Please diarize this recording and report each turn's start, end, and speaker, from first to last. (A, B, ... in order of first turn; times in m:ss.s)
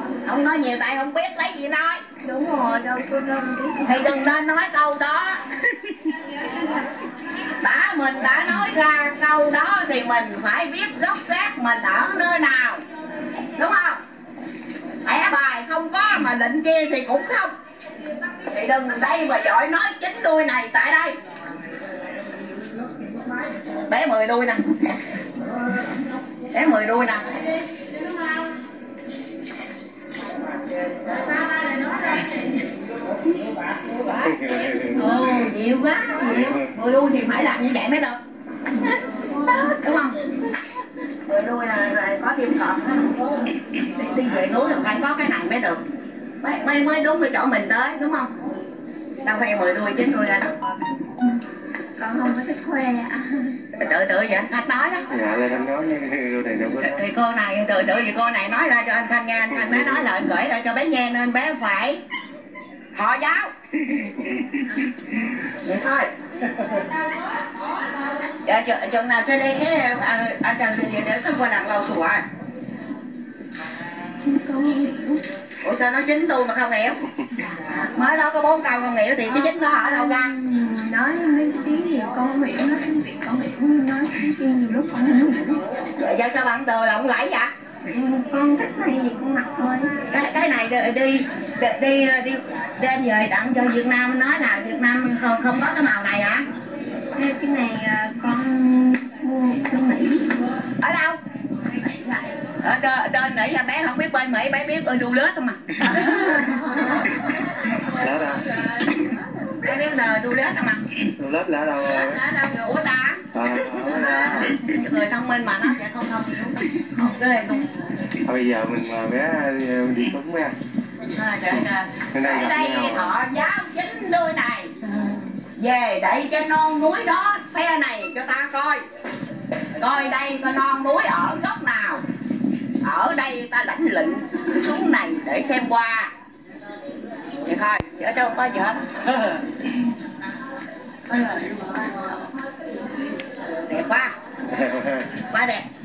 0:00.2-0:02.0 A
0:02.2-0:04.2 B
0:03.8-0:05.4 A
0:07.6-0:12.8 A
0:13.6-0:14.0 A
0:15.0-0:17.5 A
0:18.4-0:21.2 A
0:23.7-0:24.7 A
0:26.5-0:27.5 A
0:31.2-0:32.2 A
0:34.1-0:35.3 C
0:34.2-0:38.2 A
0:36.4-0:36.7 C
0:39.5-0:40.2 A
0:41.3-0:45.8 A
0:46.4-0:48.3 A
0:49.2-0:50.8 A
0:52.0-0:53.6 B
0:53.7-0:55.1 A
0:55.1-0:57.0 C
0:56.8-1:02.0 A
0:59.5-1:00.1 C
1:02.9-1:03.5 A
1:05.6-1:06.1 A
1:08.4-1:12.2 A
1:14.2-1:15.2 B
1:15.6-1:17.0 A
1:17.8-1:20.3 A
1:19.2-1:25.6 B
1:26.0-1:27.5 A
1:27.9-1:30.0 B
1:30.1-1:36.4 A
1:37.1-1:40.4 B
1:40.8-1:41.2 A
1:42.4-1:46.8 A
1:46.0-1:47.1 B
1:47.9-1:48.5 C
1:48.9-1:49.5 B
1:49.6-1:50.9 A
1:51.0-1:52.2 C
1:51.9-1:57.7 A
1:53.3-1:54.6 C
1:54.0-1:54.4 B
1:58.2-2:00.6 C
2:01.1-2:04.8 A
2:02.1-2:03.2 C
2:05.6-2:08.8 A
2:09.8-2:12.0 A
2:12.8-2:16.1 A
2:17.4-2:19.3 A
2:21.1-2:22.1 A
2:23.6-2:24.1 A
2:24.5-2:25.2 C
2:25.2-2:25.7 A